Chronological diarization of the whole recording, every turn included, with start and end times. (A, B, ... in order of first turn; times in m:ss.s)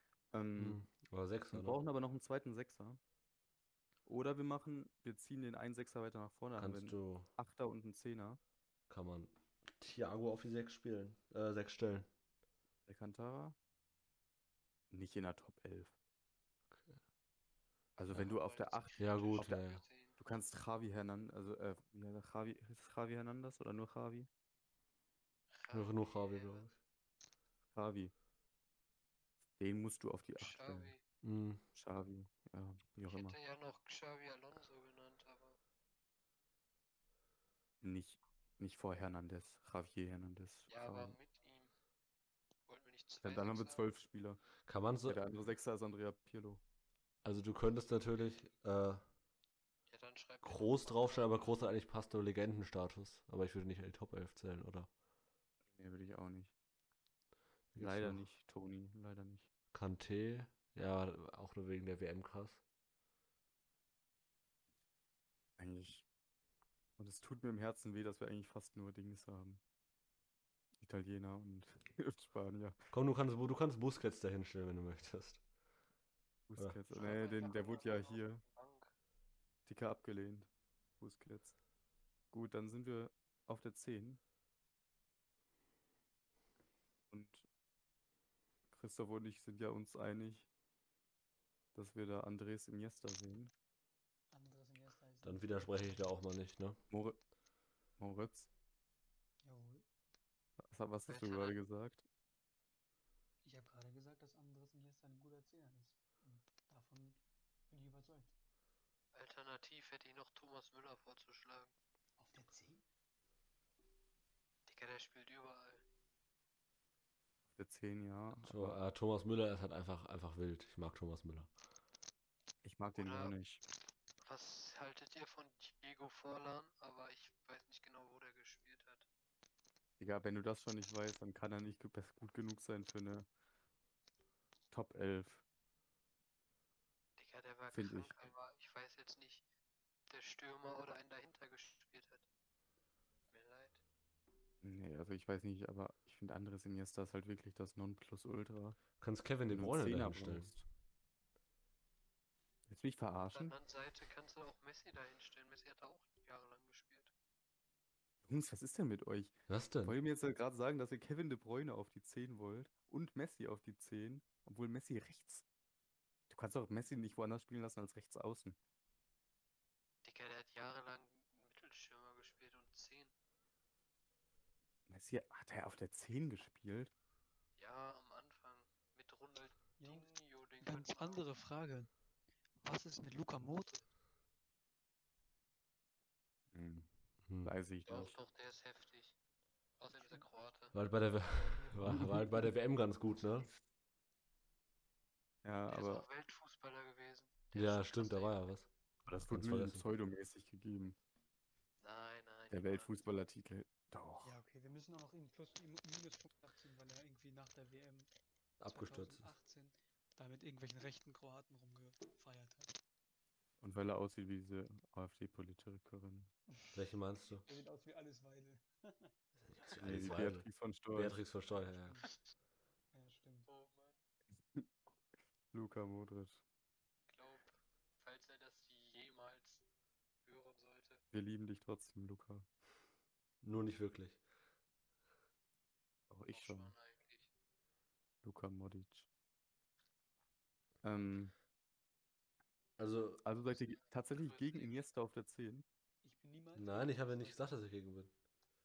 0:00.3-0:00.8 A
0:00.6-0:01.8 B
0:01.5-0:03.0 A
0:04.1-0:08.4 A
0:06.6-0:07.3 B
0:08.9-0:12.1 B
0:12.9-0:13.6 A
0:14.9-0:15.9 A
0:16.7-0:17.0 B
0:18.0-0:19.6 A
0:18.2-0:20.2 C
0:19.0-0:19.8 B
0:20.2-0:24.3 A
0:25.5-0:26.7 C
0:25.7-0:26.8 B
0:27.7-0:28.1 A
0:29.6-0:30.9 A
0:30.4-0:31.0 C
0:31.2-0:31.6 B
0:31.8-0:33.4 A
0:33.1-0:35.6 C
0:37.8-0:41.2 A
0:40.7-0:41.7 C
0:42.7-0:43.8 C
0:43.2-0:44.4 A
0:44.7-0:45.2 B
0:45.1-0:46.6 A
0:47.2-0:49.0 B
0:49.9-0:51.6 C
0:50.4-0:54.9 B
0:55.7-0:56.5 A
0:57.7-0:58.2 B
0:57.8-0:59.5 A
0:59.7-1:02.6 B
1:05.6-1:06.0 A
1:07.0-1:09.6 A
1:10.8-1:12.8 A
1:12.9-1:15.4 B
1:16.5-1:18.4 A
1:16.9-1:18.9 C
1:19.7-1:21.6 A
1:22.3-1:24.2 A
1:27.1-1:27.5 A
1:28.7-1:30.5 A
1:31.7-1:33.5 A
1:34.3-1:36.2 D
1:35.2-1:36.8 B
1:36.9-1:37.2 A
1:38.0-1:38.5 A
1:39.4-1:39.8 D
1:40.7-1:42.0 A
1:41.1-1:41.6 C
1:43.4-1:48.3 D
1:49.1-1:51.7 C
1:52.2-1:52.8 D
1:54.7-1:55.8 C
1:57.6-1:58.8 A
1:58.5-2:01.5 B
2:02.6-2:03.6 A
2:02.9-2:03.4 C
2:04.2-2:09.1 C
2:10.0-2:13.3 A
2:14.7-2:15.4 A
2:17.2-2:19.4 C
2:17.7-2:18.2 A
2:20.1-2:22.3 C
2:23.3-2:23.8 C
2:24.6-2:28.8 A
2:29.0-2:30.5 B
2:29.5-2:30.6 A
2:32.7-2:33.6 A
2:33.3-2:37.1 C
2:38.3-2:45.4 A
2:39.5-2:40.0 B
2:46.3-2:48.6 A
2:50.0-2:53.1 C
2:54.9-2:56.9 A
2:57.6-3:01.2 C
2:59.8-3:01.9 D
3:02.6-3:03.9 D
3:06.5-3:06.9 A
3:07.3-3:07.5 B
3:07.4-3:08.2 A
3:07.9-3:09.2 C
3:09.8-3:10.8 C
3:09.9-3:10.3 D
3:10.7-3:13.5 B
3:11.2-3:12.3 D
3:11.9-3:12.3 A
3:15.4-3:16.1 A
3:15.7-3:18.4 C
3:17.5-3:18.7 B
3:19.1-3:21.0 A
3:19.3-3:19.9 B
3:21.8-3:23.0 C
3:22.5-3:24.4 A
3:24.2-3:28.1 D
3:28.6-3:29.3 B
3:28.7-3:32.8 D
3:33.6-3:36.3 A
3:36.7-3:37.5 B
3:37.5-3:39.1 D
3:39.4-3:42.0 B
3:39.8-3:41.2 A
3:41.5-3:42.1 D
3:42.9-3:43.5 D
3:43.5-3:44.0 C
3:45.5-3:46.4 A
3:47.1-3:49.6 C
3:50.2-3:51.0 C
3:51.1-3:52.5 A
3:53.4-3:54.2 B
3:56.1-3:56.7 A
3:56.3-3:57.3 C
3:58.2-3:59.1 A
4:00.8-4:01.3 A
4:02.8-4:03.2 B
4:03.2-4:05.6 A
4:03.4-4:04.8 C
4:06.0-4:07.5 D
4:06.6-4:08.1 B